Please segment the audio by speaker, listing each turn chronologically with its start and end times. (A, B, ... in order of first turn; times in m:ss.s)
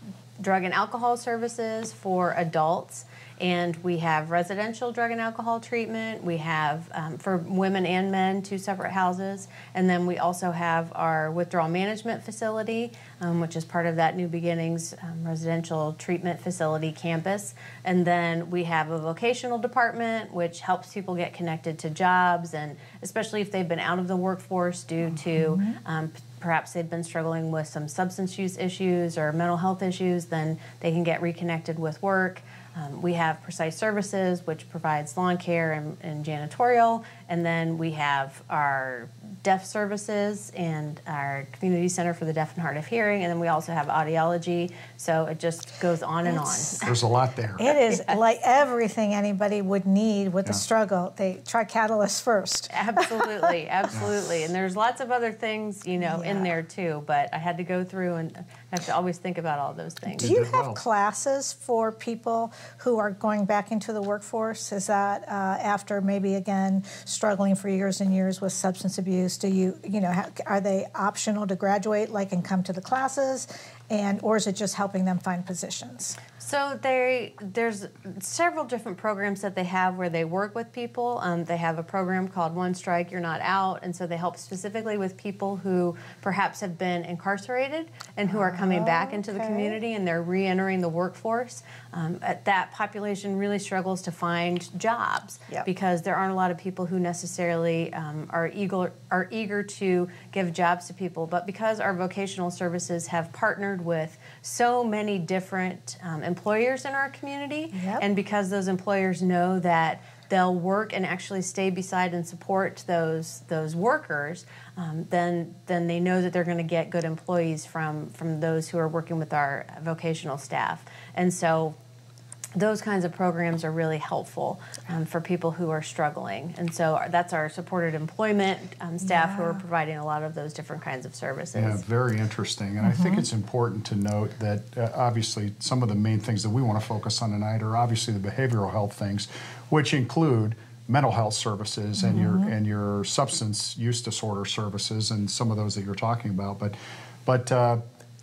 0:00.4-0:46.9 A
0:25.1-0:25.8 B
0:46.2-0:46.7 B
0:46.8-0:47.7 C
0:47.6-0:53.4 B
0:52.7-1:00.2 A
0:56.0-0:56.5 B
1:00.2-1:16.2 B
1:00.2-1:00.8 C
1:16.4-2:01.8 A
1:28.3-1:29.8 B
1:47.7-1:48.0 B
2:02.5-2:11.8 A
2:09.0-2:09.6 B
2:11.6-2:27.8 C
2:12.8-2:13.3 B
2:22.0-2:22.5 B